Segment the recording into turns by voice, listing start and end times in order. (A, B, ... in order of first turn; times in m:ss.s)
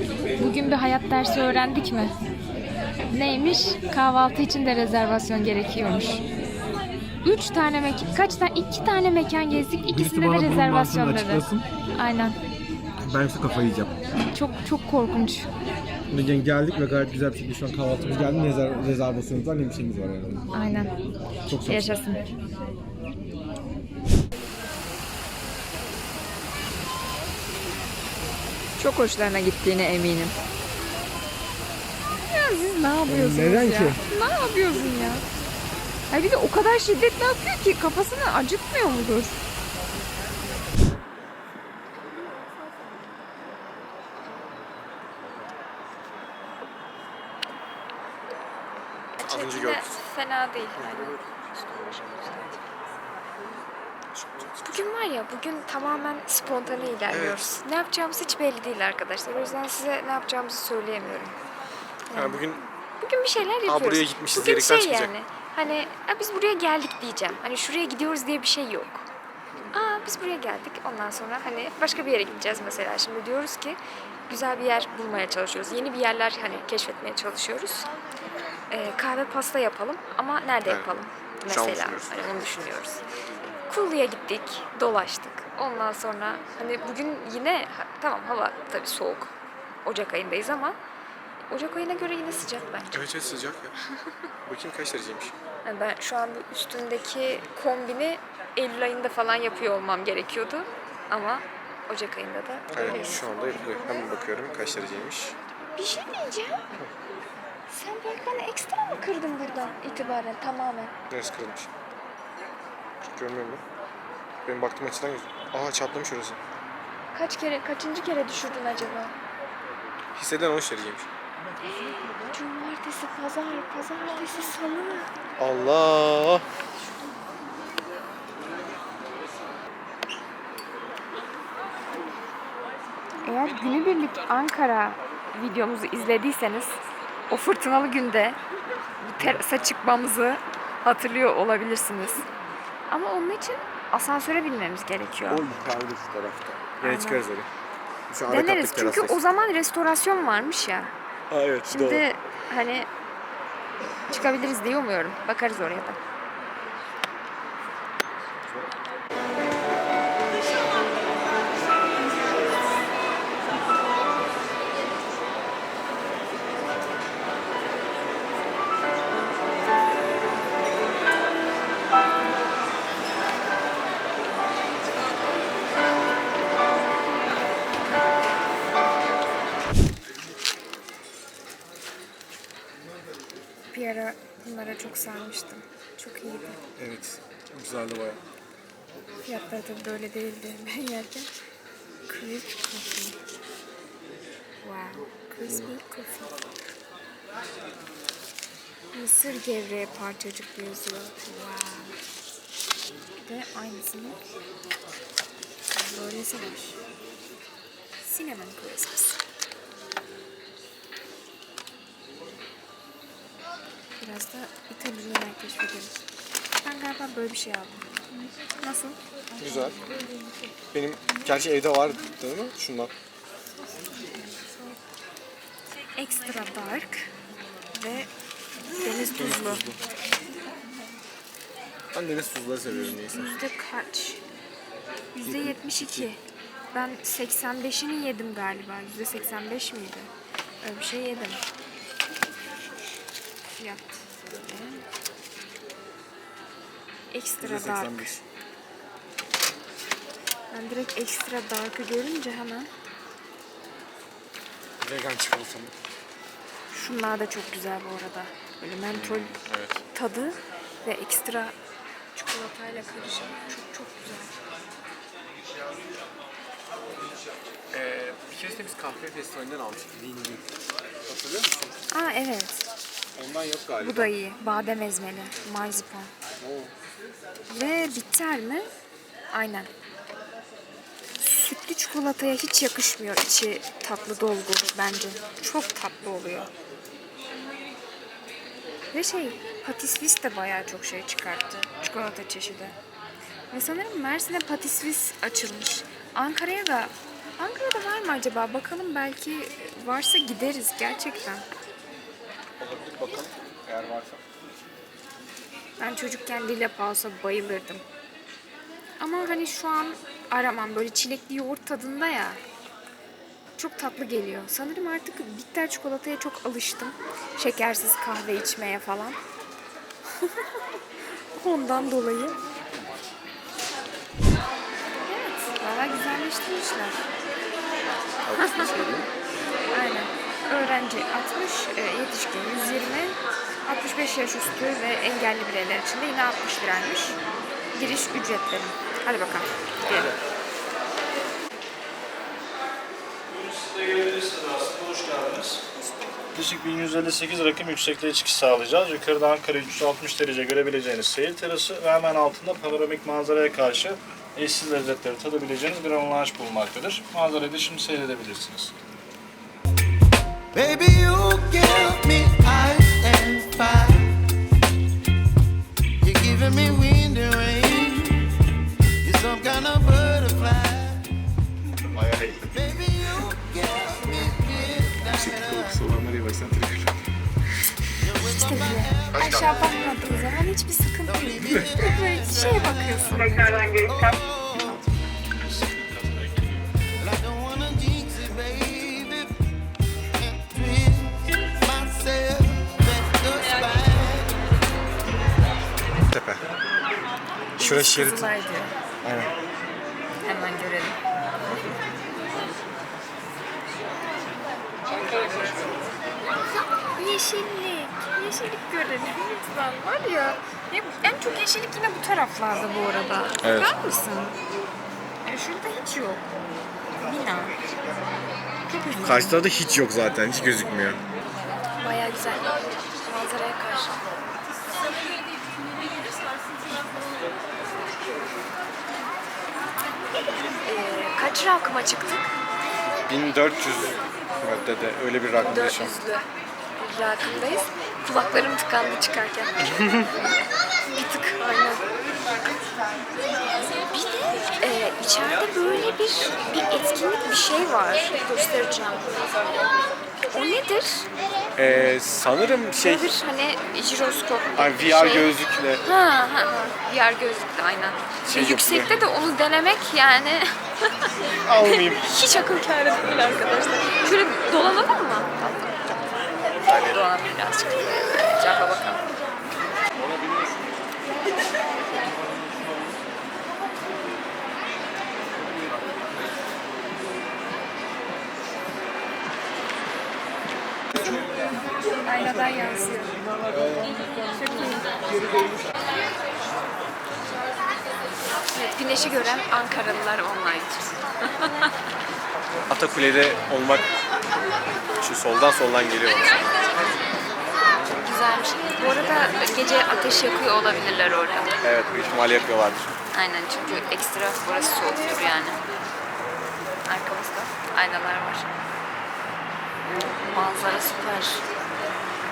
0:00.4-0:02.2 A
0:03.1-0:06.2 A
0:07.2-0:11.4 A
0:09.9-0:11.6 B
0:12.0-0:12.4 A
0:13.0-0:14.0 B
0:14.3-0:15.5 A
0:16.1-0:20.4 B
0:20.5-0:20.9 A
0:21.5-0:21.9 B
0:21.6-0:22.2 A
0:28.8-0:30.4 A
0:32.2-0:35.2 A
0:33.0-0:34.0 B
0:36.1-0:39.4 A
0:49.2-0:52.6 A
0:49.2-0:49.9 B
0:54.1-0:54.8 B
0:54.6-1:01.4 A
0:57.1-0:57.5 B
1:02.1-1:02.4 A
1:02.1-1:02.6 B
1:03.0-1:09.1 A
1:03.6-1:05.1 B
1:09.7-1:17.9 A
1:18.7-1:23.0 A
1:20.6-1:22.4 B
1:23.7-1:29.3 A
1:29.8-1:30.8 A
1:31.5-1:33.0 A
1:32.9-1:33.7 B
1:34.4-1:35.3 B
1:35.6-1:43.2 A
1:42.7-1:45.4 B
1:45.8-1:46.6 A
1:47.7-1:50.9 A
1:51.1-1:51.7 B
1:53.0-1:53.6 B
1:54.4-1:56.4 B
1:57.1-1:59.1 A
2:00.1-2:01.1 B
2:01.6-2:05.1 A
2:05.4-2:06.4 B
2:13.2-2:18.4 A
2:19.0-2:22.3 A
2:22.9-2:25.4 A
2:25.3-2:27.5 B
2:26.8-2:27.2 A
2:28.1-2:29.2 B
2:28.3-2:30.9 A
2:31.3-2:32.0 B
2:31.6-2:32.9 A
2:34.1-2:36.0 A
3:03.7-3:06.6 A
3:06.8-3:08.2 B
3:09.2-3:11.3 A
3:12.1-3:13.2 A
3:14.6-3:16.4 A
3:15.4-3:15.7 B
3:18.9-3:22.0 A
3:23.2-3:24.2 A
3:25.7-3:26.8 A
3:28.0-3:29.2 A
3:34.0-3:36.0 A
3:36.6-3:39.0 A
3:39.4-3:39.8 B
3:40.7-3:42.9 B
3:43.7-3:44.8 A
3:45.9-3:47.1 A
3:47.7-3:48.1 A
3:48.8-3:49.6 A
3:49.0-3:49.8 B
3:51.9-3:53.4 B
3:52.7-3:54.2 A
3:55.1-3:56.2 A
3:55.2-3:56.1 B
3:56.7-4:00.1 A
4:00.6-4:01.4 A
4:03.6-4:04.8 A
4:07.1-4:08.1 A
4:07.4-4:08.2 B
4:10.5-4:12.7 A
4:14.8-4:15.7 B
4:16.7-4:19.3 A
4:18.9-4:19.8 B
4:19.9-4:21.5 A
4:22.1-4:24.3 A
4:27.7-4:30.5 B
4:31.0-4:31.8 B
4:31.9-4:32.6 A
4:33.2-4:34.1 B
4:33.8-4:36.1 A
4:36.4-4:36.7 B
4:37.5-4:38.7 A
4:39.3-4:39.7 A
4:41.2-4:46.5 A
4:48.9-4:52.8 A
4:53.5-5:01.4 A
5:02.6-5:04.2 B
5:05.8-5:07.8 A
5:09.0-5:12.4 A
5:13.6-5:19.2 A
5:21.3-5:22.4 A
5:25.0-5:27.0 A
5:28.2-5:29.1 B
5:28.4-5:28.7 A
5:29.7-5:37.2 A
5:37.7-5:39.5 A
5:39.8-5:40.1 B
5:43.3-5:45.6 C
5:45.8-5:46.1 A
5:46.3-5:58.7 C
6:00.5-6:04.1 D
6:06.0-6:08.3 D
6:09.0-6:11.0 D
6:11.9-6:12.6 B
6:12.5-6:15.8 D
6:15.1-6:17.0 B
6:18.0-6:19.7 D
6:18.1-6:23.9 A
6:19.1-6:20.3 B
6:21.0-6:24.9 D
6:25.6-6:26.3 C
6:27.0-6:29.3 D
6:30.2-6:34.4 D
6:36.1-6:36.4 B
6:37.6-6:38.3 B
6:37.6-6:38.7 A
6:39.0-6:39.3 B
6:40.2-6:41.0 A
6:44.9-6:45.6 A
6:46.9-6:54.4 A
6:53.4-6:53.7 B
6:55.2-6:56.2 A
6:57.0-6:57.6 A
6:58.7-6:59.3 A
6:59.0-7:01.0 B
7:01.8-7:04.0 A
7:10.6-7:12.3 A
7:13.0-7:15.9 B
7:15.4-7:16.2 A
7:16.8-7:19.6 A
7:20.9-7:21.9 A
7:23.9-7:29.1 A
7:30.3-7:31.0 A
7:31.6-7:33.0 B
7:32.8-7:35.3 A
7:34.5-7:35.8 B
7:35.8-7:40.5 A
7:38.2-7:38.9 B
7:41.4-7:42.2 B
7:41.6-7:45.9 A
7:46.6-7:47.0 B
7:46.6-7:49.0 A
8:01.9-8:03.1 A
8:03.4-8:04.0 B
8:04.2-8:04.9 A
8:08.5-8:11.7 A
8:12.7-8:13.9 B
8:15.0-8:16.4 B
8:18.0-8:21.6 A
8:21.6-8:22.9 B
8:23.1-8:25.6 A
8:26.8-8:28.6 A
8:30.1-8:31.4 A